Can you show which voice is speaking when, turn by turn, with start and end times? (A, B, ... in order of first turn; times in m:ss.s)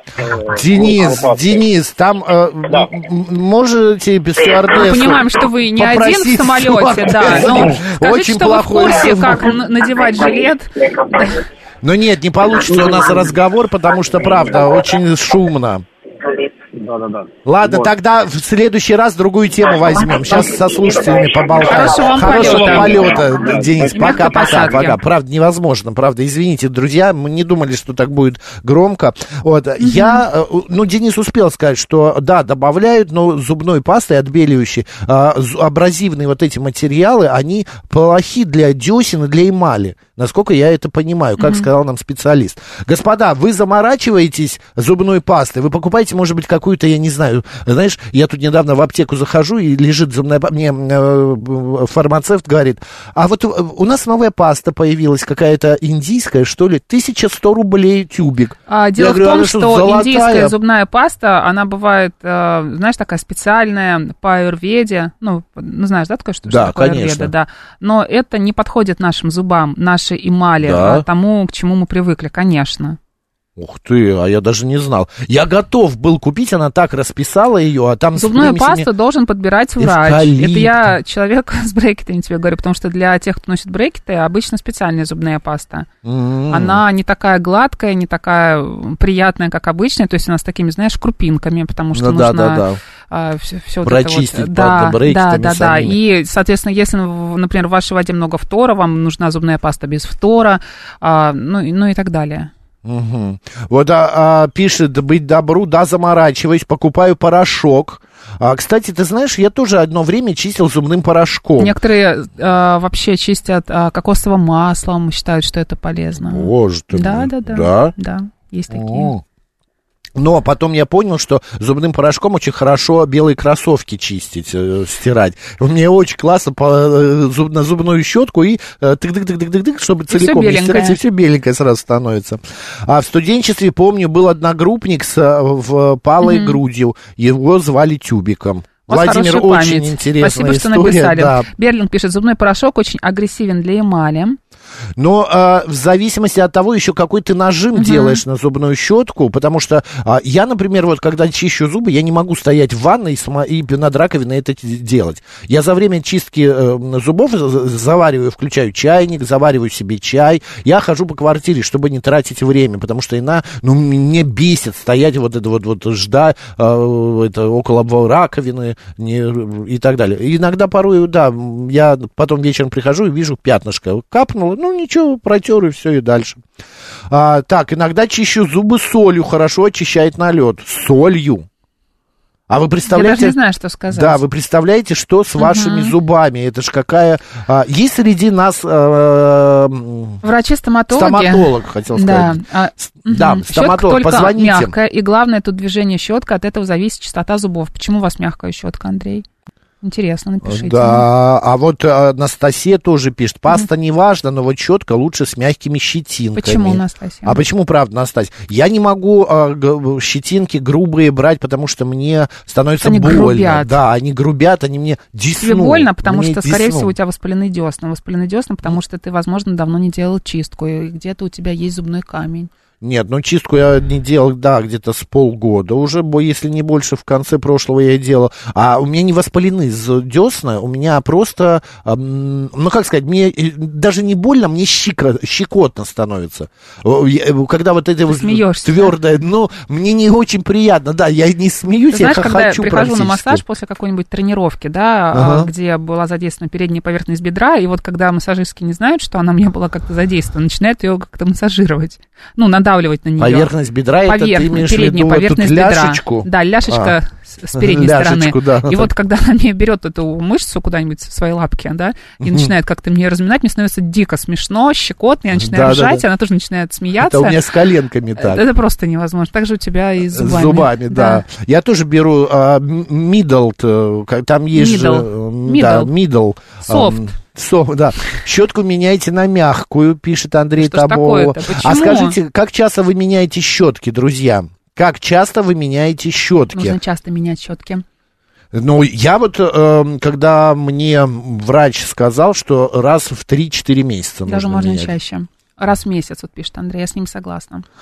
0:00.2-0:01.6 A
0:00.4-0:09.6 B
0:04.7-0:11.4 C
0:11.8-0:15.8 B
0:16.7-0:17.9 A
0:17.4-1:00.5 B
0:21.6-0:23.1 C
0:22.3-0:24.1 A
0:23.9-0:25.0 C
0:29.8-0:30.2 C
0:41.4-0:41.6 C
0:58.7-1:13.0 C
1:06.5-1:07.3 B
1:10.6-1:11.0 B
1:13.6-1:18.9 B
1:18.2-1:25.9 C
1:19.8-1:20.9 B
1:26.0-1:26.8 B
1:26.5-1:42.5 C
1:31.9-1:32.8 B
1:33.8-1:36.0 B
1:42.8-1:51.8 B
1:51.6-1:59.1 C
1:56.2-1:57.9 B
1:58.7-1:59.2 B
2:00.2-2:21.5 B
2:10.1-2:11.0 C
2:16.2-2:16.6 C
2:18.9-2:24.4 C
2:25.0-2:56.4 B
2:27.7-2:28.2 C
2:57.1-3:01.4 B
3:02.5-3:03.4 B
3:02.9-3:04.2 C
3:03.9-3:10.2 B
3:05.4-3:05.9 C
3:10.2-3:19.2 C
3:10.9-3:14.7 B
3:19.8-3:21.1 C
3:20.4-3:36.9 B
3:26.3-3:27.4 C
3:32.8-3:33.8 C
3:35.4-3:42.5 C
3:42.8-4:03.4 B
3:58.1-3:58.9 C
4:01.9-4:13.5 C
4:05.1-4:05.5 B
4:13.2-4:16.9 B
4:14.0-4:27.4 C
4:17.5-4:18.9 B
4:22.2-4:22.5 B
4:25.3-4:26.0 B
4:27.0-4:28.4 B
4:28.2-4:31.2 C
4:30.1-4:46.8 B
4:34.5-4:35.9 C
4:36.6-4:37.1 C
4:40.6-4:42.2 C
4:46.5-4:47.8 C
4:48.5-4:54.9 B
4:54.2-4:57.6 C